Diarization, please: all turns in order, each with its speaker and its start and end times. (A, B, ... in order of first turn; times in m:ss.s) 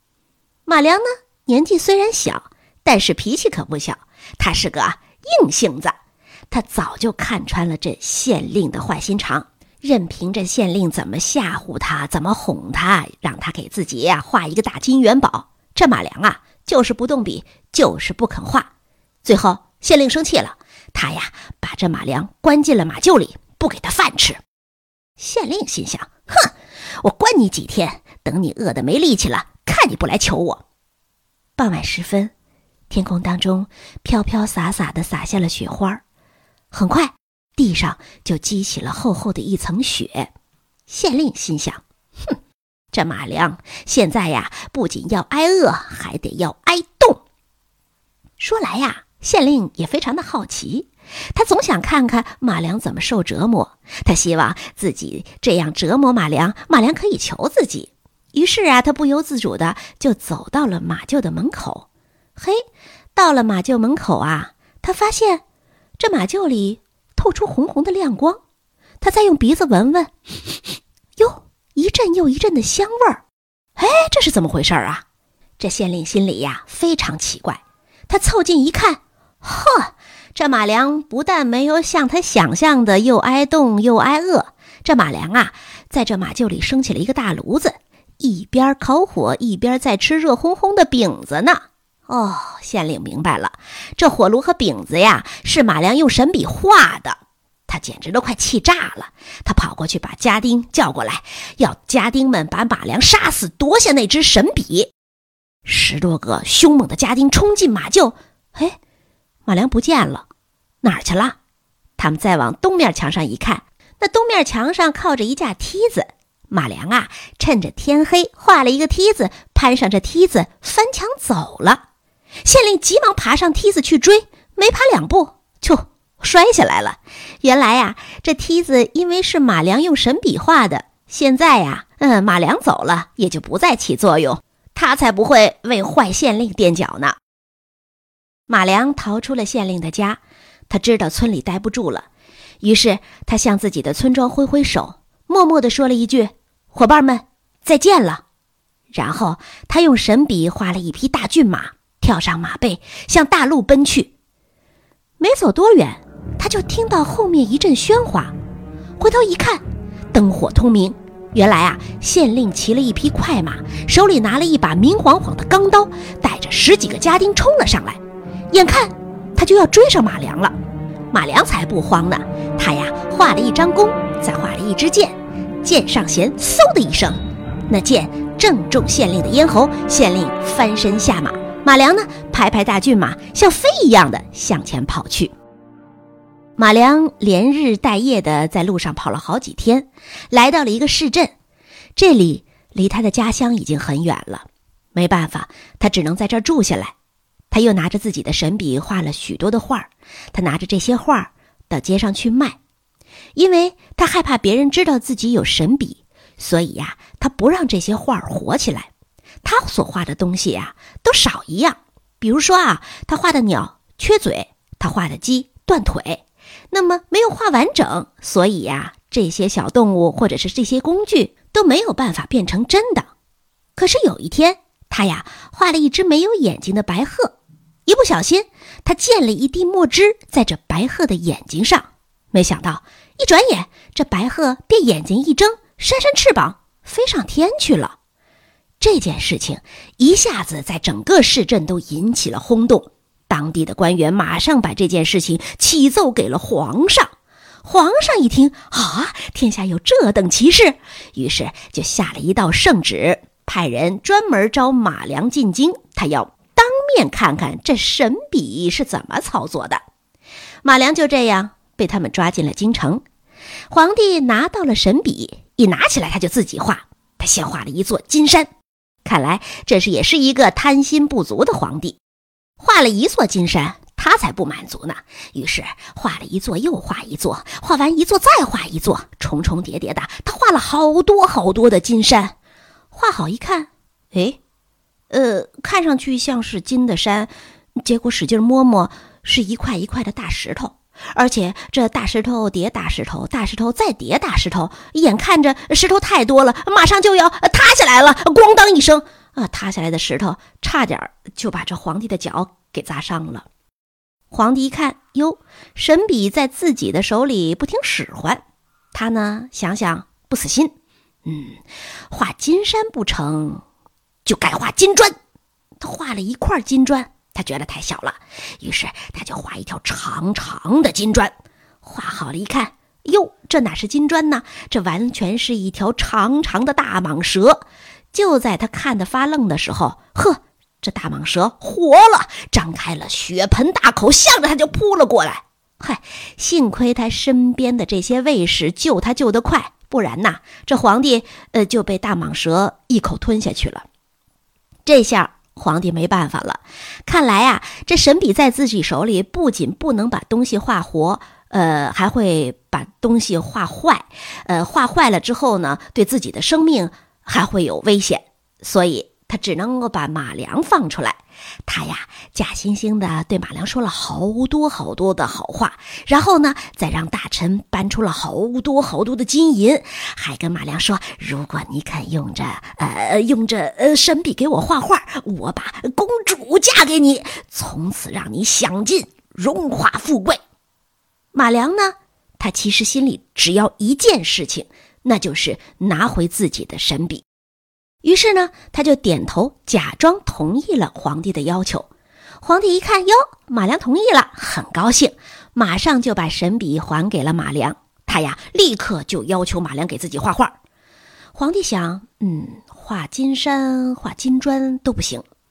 0:00.6-0:06.0 A
0:06.5-0:18.7 A
0:19.2-0:24.4 A
0:25.2-0:30.6 A
0:31.6-0:32.3 A
0:32.9-0:36.0 A
0:36.7-0:40.3 A
0:40.9-0:42.4 A
0:42.9-0:47.2 A
0:48.4-1:02.6 A
1:03.1-1:05.4 A
1:06.0-1:08.4 A
1:09.0-1:10.1 A
1:11.2-1:13.2 A
1:13.8-1:15.0 A
1:15.6-1:44.9 A
1:45.6-1:48.8 A
1:49.4-1:50.2 A
1:50.8-1:51.4 A
1:52.0-2:01.8 A
2:02.4-2:17.2 A
2:18.5-2:22.1 A
2:22.6-2:28.2 A
2:28.9-2:34.1 A
2:35.2-2:38.3 A
2:39.0-2:39.6 A
2:40.1-2:48.0 A
2:48.5-2:50.5 A
2:51.1-3:05.3 A
3:06.6-3:11.3 A
3:12.0-3:16.9 A
3:17.5-3:22.6 A
3:23.3-3:28.9 A
3:29.4-3:43.1 A
3:43.8-3:47.3 A
3:47.8-3:58.0 A
3:58.8-4:07.1 A
4:07.6-4:19.8 A
4:20.6-4:23.0 A
4:23.7-4:28.5 A
4:29.0-4:32.0 A
4:32.6-4:42.3 A
4:42.9-4:44.4 A
4:45.1-5:03.4 A
5:04.3-5:08.4 A
5:08.9-5:10.7 A
5:11.2-5:13.6 A
5:14.2-5:15.1 A
5:15.8-5:43.8 A
5:44.8-6:20.4 A
6:21.3-6:27.2 A
6:28.0-6:31.9 A
6:32.4-6:40.5 A
6:41.3-6:45.2 A